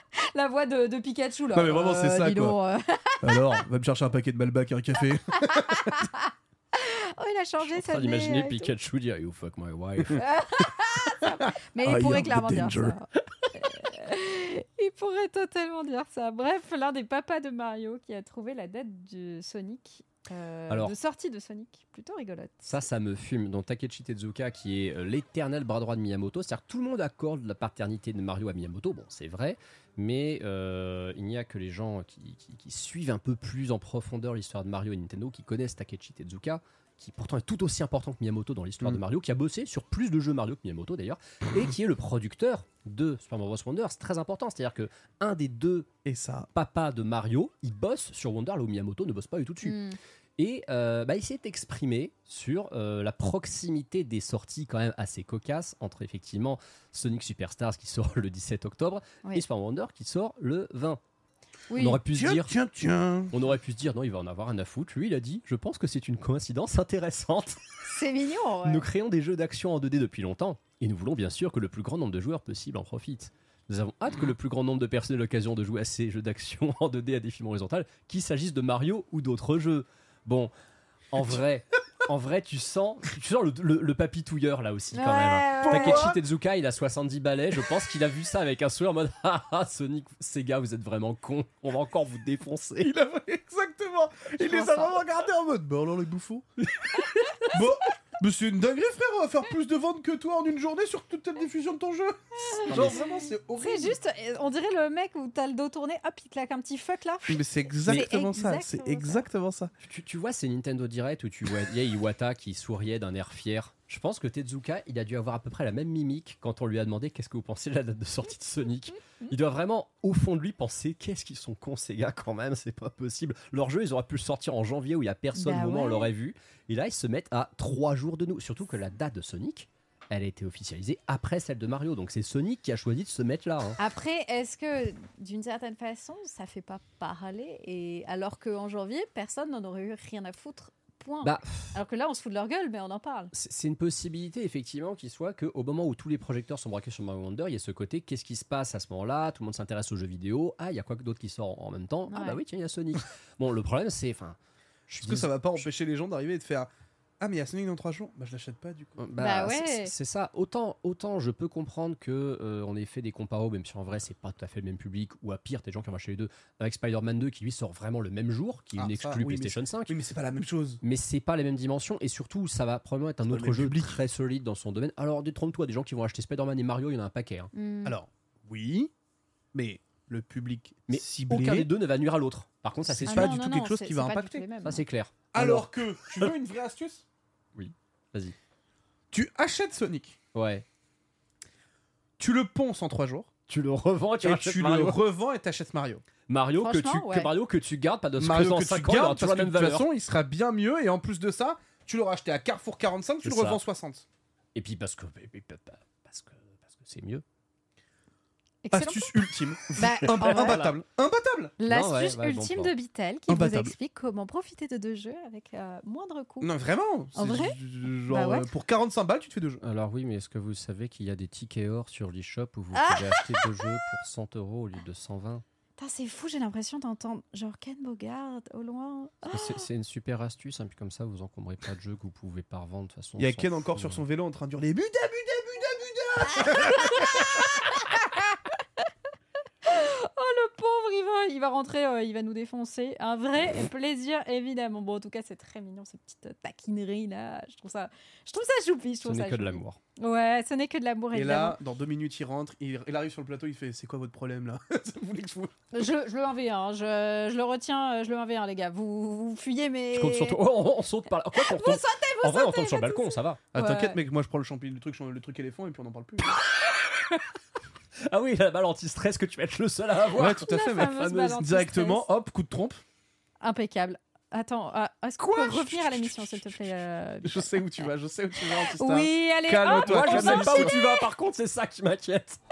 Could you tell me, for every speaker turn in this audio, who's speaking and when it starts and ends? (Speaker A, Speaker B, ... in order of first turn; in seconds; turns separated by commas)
Speaker A: 0.3-3.6, Speaker B: 1.5-2.6, Speaker B: 3.2-6.0, Speaker A: 5.4-8.7, Speaker C: 7.6-10.2, Speaker A: 10.1-22.8, Speaker B: 11.8-13.0, Speaker C: 20.7-20.9, Speaker C: 22.6-45.9, Speaker B: 46.0-46.5, Speaker C: 46.5-49.8, Speaker A: 49.6-50.0, Speaker C: 50.4-61.0, Speaker A: 61.7-62.0, Speaker C: 61.8-62.5, Speaker B: 62.1-63.3, Speaker C: 63.3-67.8, Speaker A: 67.8-68.8, Speaker C: 68.6-80.5, Speaker C: 81.1-92.9, Speaker A: 84.9-86.0, Speaker B: 85.6-86.2, Speaker B: 92.8-96.5, Speaker A: 94.4-95.0, Speaker B: 97.5-104.0, Speaker A: 102.4-109.2, Speaker C: 102.7-103.0, Speaker B: 107.2-109.7, Speaker C: 109.8-133.8, Speaker A: 125.3-126.1, Speaker A: 133.8-143.3, Speaker C: 141.2-141.7, Speaker C: 143.3-155.6, Speaker A: 152.1-152.4, Speaker B: 155.0-159.0, Speaker C: 159.0-170.0, Speaker A: 159.2-159.9, Speaker B: 168.8-170.8, Speaker C: 170.8-177.5, Speaker B: 173.3-174.0, Speaker A: 177.5-178.0, Speaker B: 177.8-178.9, Speaker B: 179.5-181.7, Speaker C: 180.9-183.4, Speaker B: 182.8-184.4, Speaker A: 183.0-184.8, Speaker C: 184.6-186.3, Speaker B: 185.3-187.0, Speaker C: 187.6-188.3, Speaker B: 189.1-190.2, Speaker C: 190.3-190.6, Speaker B: 192.2-193.3, Speaker C: 193.5-195.0, Speaker B: 194.2-196.0, Speaker C: 196.3-199.9, Speaker A: 196.6-197.3, Speaker B: 198.2-204.0, Speaker C: 203.2-203.6, Speaker C: 204.5-207.2, Speaker A: 208.6-209.2, Speaker B: 208.7-211.5, Speaker A: 209.7-210.7, Speaker C: 209.9-210.7, Speaker A: 211.6-216.5, Speaker C: 211.7-212.7, Speaker B: 213.3-213.7, Speaker B: 216.4-219.6, Speaker A: 217.1-218.5, Speaker C: 219.6-225.4, Speaker A: 222.7-223.5, Speaker A: 225.8-229.6, Speaker C: 229.3-234.0, Speaker B: 233.2-237.4, Speaker A: 236.4-238.4, Speaker A: 239.6-251.6, Speaker C: 249.0-249.8, Speaker B: 251.1-255.5, Speaker A: 255.7-260.4, Speaker C: 259.9-263.4, Speaker A: 261.3-264.0, Speaker B: 263.5-266.3, Speaker C: 268.0-270.8, Speaker B: 270.1-272.8, Speaker A: 270.3-272.0, Speaker A: 273.4-277.9, Speaker B: 275.2-276.7, Speaker B: 277.2-280.7, Speaker A: 278.7-281.0, Speaker C: 279.7-282.4